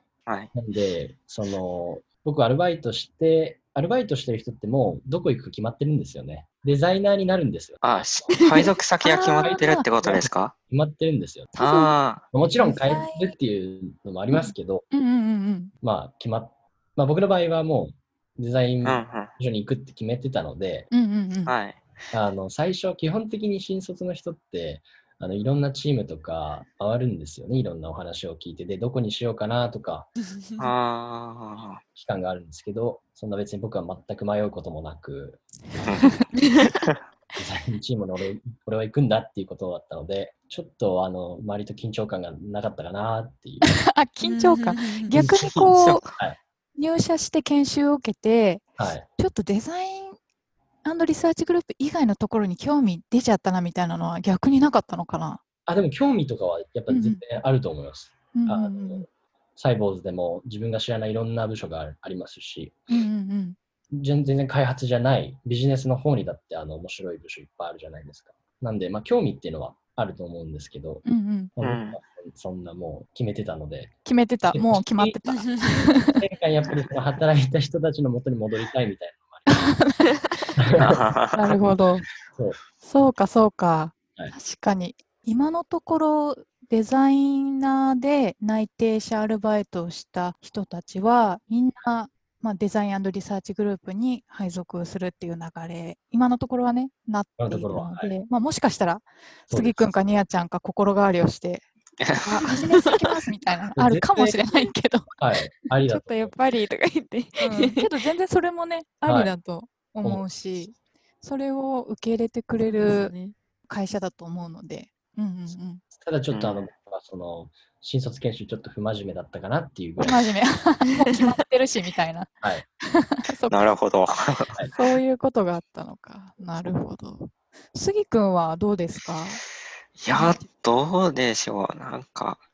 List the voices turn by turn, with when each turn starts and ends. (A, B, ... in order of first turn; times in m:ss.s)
0:00.3-0:00.5 A
0:00.5-0:07.8 B
0:07.8-0:10.5 A
0:09.0-0:09.9 C
0:09.9-0:11.6 B
0:11.6-0:12.0 C
0:11.6-0:12.2 A
0:12.3-0:14.9 B
0:12.6-0:13.3 C
0:14.9-0:15.7 C
0:15.8-0:20.9 B
0:18.8-0:19.3 A
0:20.9-0:21.5 C
0:21.5-0:21.8 A
0:22.1-0:30.1 B
0:30.6-0:31.8 A
0:32.0-0:36.2 B
0:35.8-0:36.2 A
0:37.4-0:43.8 B
0:43.6-0:46.1 C
0:44.2-0:45.1 D
0:45.2-0:46.0 A
0:46.8-0:48.6 C
0:48.8-0:49.1 B
0:49.2-0:50.2 C
0:50.8-0:55.4 C
0:55.7-0:59.1 B
0:56.9-0:57.2 C
0:58.4-0:59.0 C
0:59.6-1:02.8 B
1:02.9-1:03.6 C
1:03.9-1:11.0 B
1:11.0-1:11.5 C
1:11.6-1:13.9 B
1:11.6-1:12.0 A
1:14.0-1:16.2 C
1:14.5-1:19.8 B
1:15.3-1:15.9 D
1:19.5-1:20.0 C
1:20.6-1:21.0 B
1:20.8-1:21.5 A
1:21.3-1:22.1 C
1:22.3-1:22.6 B
1:22.8-1:41.6 C
1:37.4-1:38.1 B
1:39.5-1:40.0 B
1:42.0-1:42.4 A
1:42.2-1:45.1 C
1:42.4-1:43.0 D
1:43.8-1:44.4 B
1:45.2-1:46.4 B
1:45.9-1:47.9 D
1:47.4-1:53.1 C
1:49.1-1:49.3 B
1:52.7-1:53.4 D
1:53.7-1:55.8 C
1:55.9-2:00.3 B
1:56.3-1:56.7 A
2:00.0-2:02.3 C
2:00.9-2:01.4 D
2:02.8-2:03.7 C
2:03.5-2:04.6 A
2:04.7-2:09.4 C
2:10.0-2:12.4 A
2:10.1-2:10.4 C